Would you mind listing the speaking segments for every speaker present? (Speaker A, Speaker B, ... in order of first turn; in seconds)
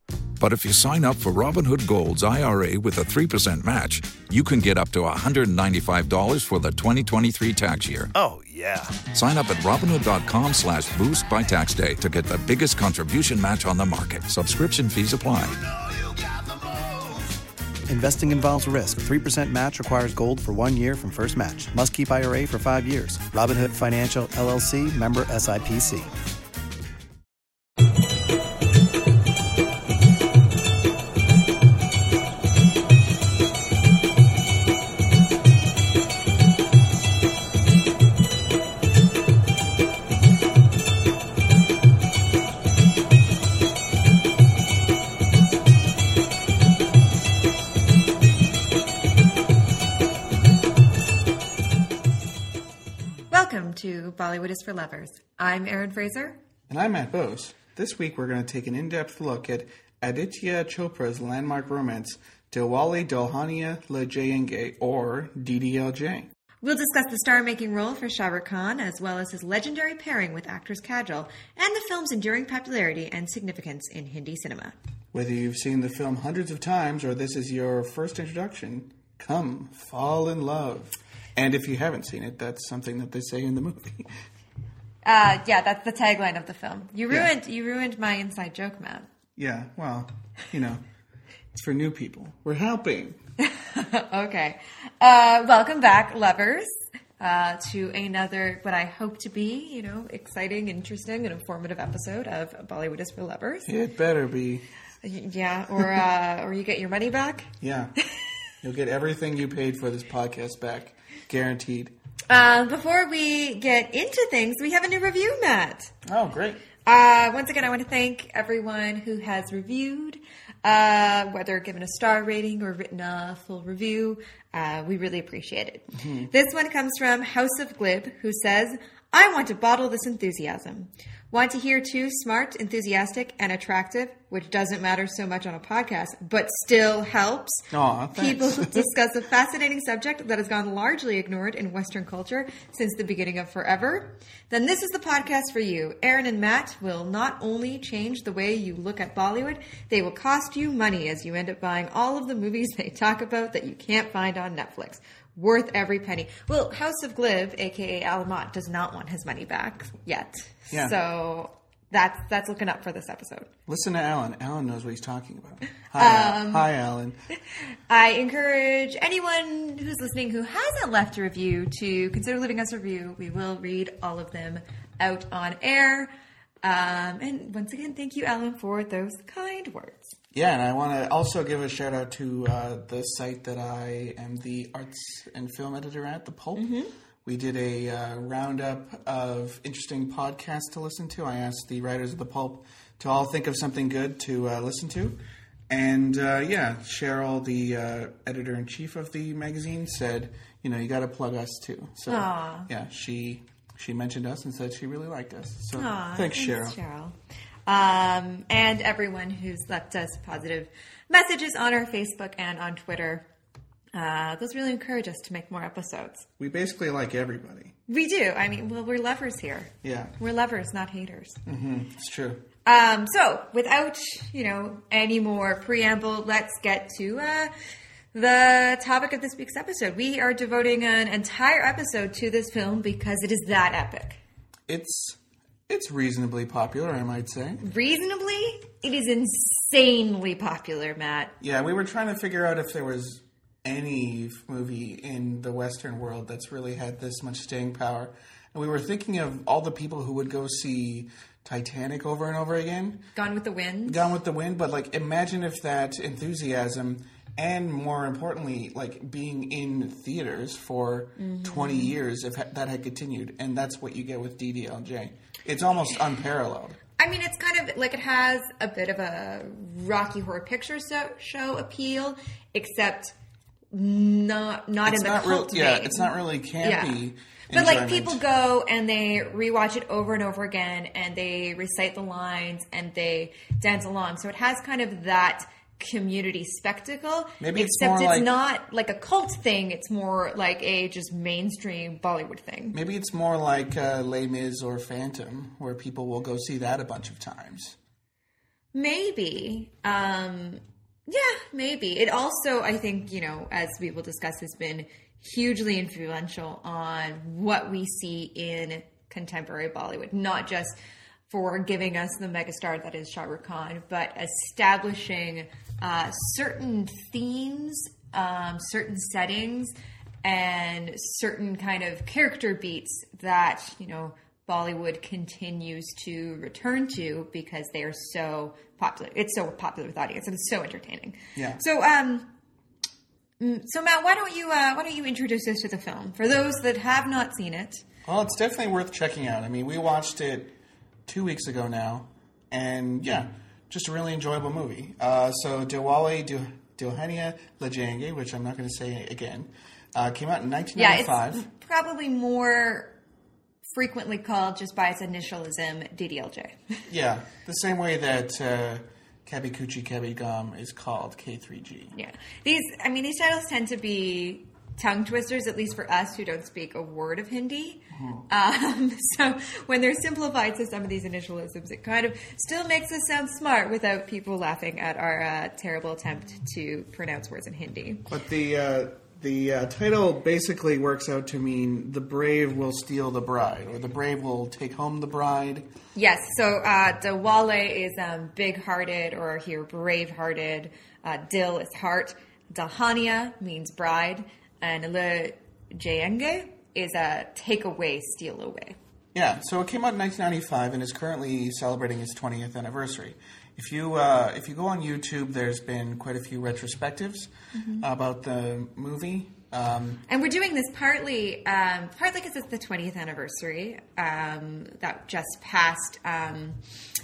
Speaker A: 0.4-8.1, 9.1-15.6
Speaker B: 8.1-9.0, 15.5-26.1
Speaker C: 53.3-56.4, 66.6-74.7, 85.0-89.1, 93.4-96.7, 97.2-103.7, 105.0-107.5, 112.3-115.9, 116.8-163.5, 165.9-166.7, 167.9-176.1, 176.6-180.1, 186.6-186.9, 202.1-202.7, 205.7-207.1, 207.7-213.2, 213.9-216.3, 217.9-221.4, 222.6-227.5, 228.1-234.2, 237.6-241.3, 253.1-254.1, 261.2-261.9, 267.0-273.1, 273.7-277.0, 277.5-292.8, 298.7-310.8, 311.3-332.3, 333.4-337.8, 350.8-352.9, 353.6-356.8, 361.9-378.1, 385.9-398.8, 407.5-407.8, 410.1-416.6
Speaker D: 56.7-66.3, 75.1-84.2, 89.3-90.8, 91.5-93.2, 103.6-104.7, 107.6-107.9, 108.6-111.9, 116.0-116.6, 125.9-126.3, 137.7-138.9, 160.7-160.9, 163.7-167.2, 180.3-186.7, 187.2-206.8, 216.4-217.7, 219.8-220.1, 221.4-222.4, 234.7-237.6, 241.4-253.1, 253.8-266.8, 274.8-278.2, 287.4-288.3, 292.7-297.8, 331.3-331.6, 338.1-340.5, 341.1-351.4, 356.9-361.9, 367.9-368.2, 378.1-385.7, 399.1-410.0